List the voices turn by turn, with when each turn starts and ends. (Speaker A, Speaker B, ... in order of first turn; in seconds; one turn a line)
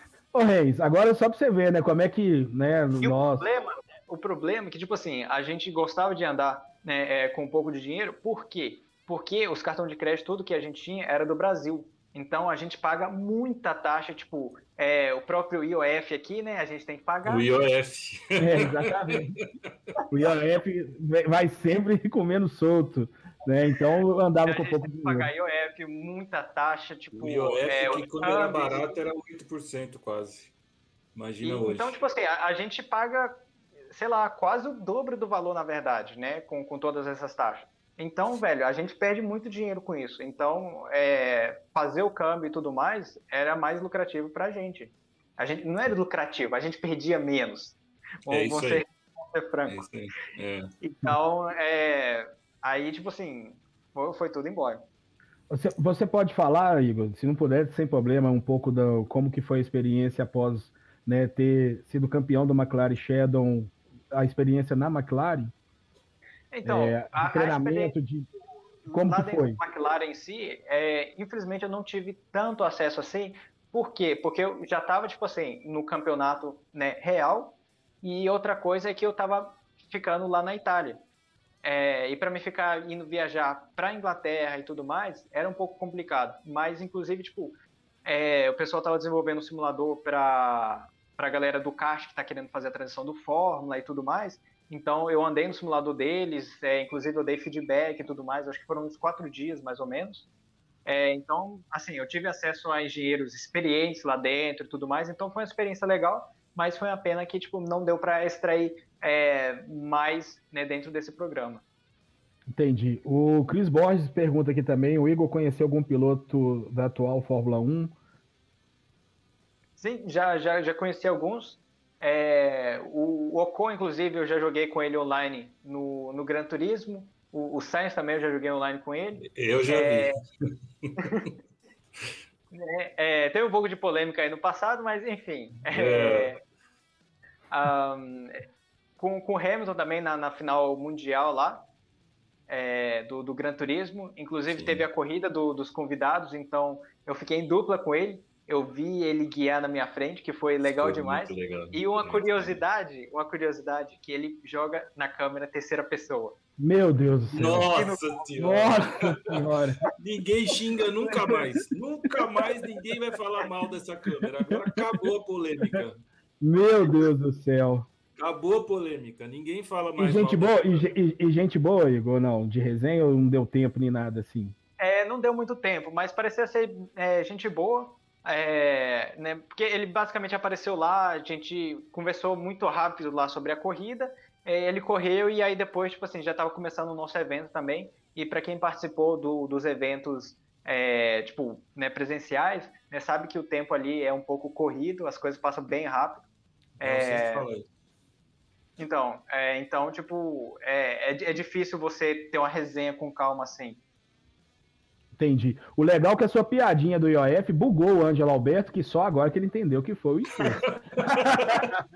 Speaker A: 0.3-3.5
Speaker B: 3.0-17.5
Speaker C: 17.2-19.2
Speaker A: 18.4-19.3
Speaker A: 20.1-25.3
Speaker B: 24.4-28.9
Speaker C: 27.1-30.5
Speaker C: 31.1-32.0
Speaker B: 31.4-33.4
Speaker B: 33.9-49.8
Speaker C: 48.3-48.8
Speaker C: 49.7-50.7
Speaker B: 50.8-54.8
Speaker A: 55.5-65.5
Speaker B: 66.5-67.9
Speaker A: 66.6-68.3
Speaker B: 68.8-81.0
Speaker A: 68.9-69.6
Speaker B: 81.6-100.2
Speaker B: 100.8-111.6
Speaker A: 112.5-117.9
Speaker B: 119.8-130.2
Speaker C: 129.2-130.1
Speaker B: 132.5-136.4
Speaker C: 135.7-136.3
Speaker B: 137.5-138.4
Speaker B: 139.0-141.6
Speaker B: 142.5-156.3
Speaker C: 144.5-144.8
Speaker C: 150.8-152.6
Speaker A: 156.6-157.7
Speaker C: 157.3-159.2
Speaker B: 157.7-158.6
Speaker A: 158.4-159.8
Speaker C: 160.0-166.0
Speaker A: 166.4-167.9
Speaker C: 168.2-170.9
Speaker A: 170.0-174.5
Speaker B: 174.8-196.2
Speaker C: 196.8-197.7
Speaker B: 196.8-197.5
Speaker B: 198.8-203.8
Speaker A: 205.2-211.8
Speaker C: 210.7-211.7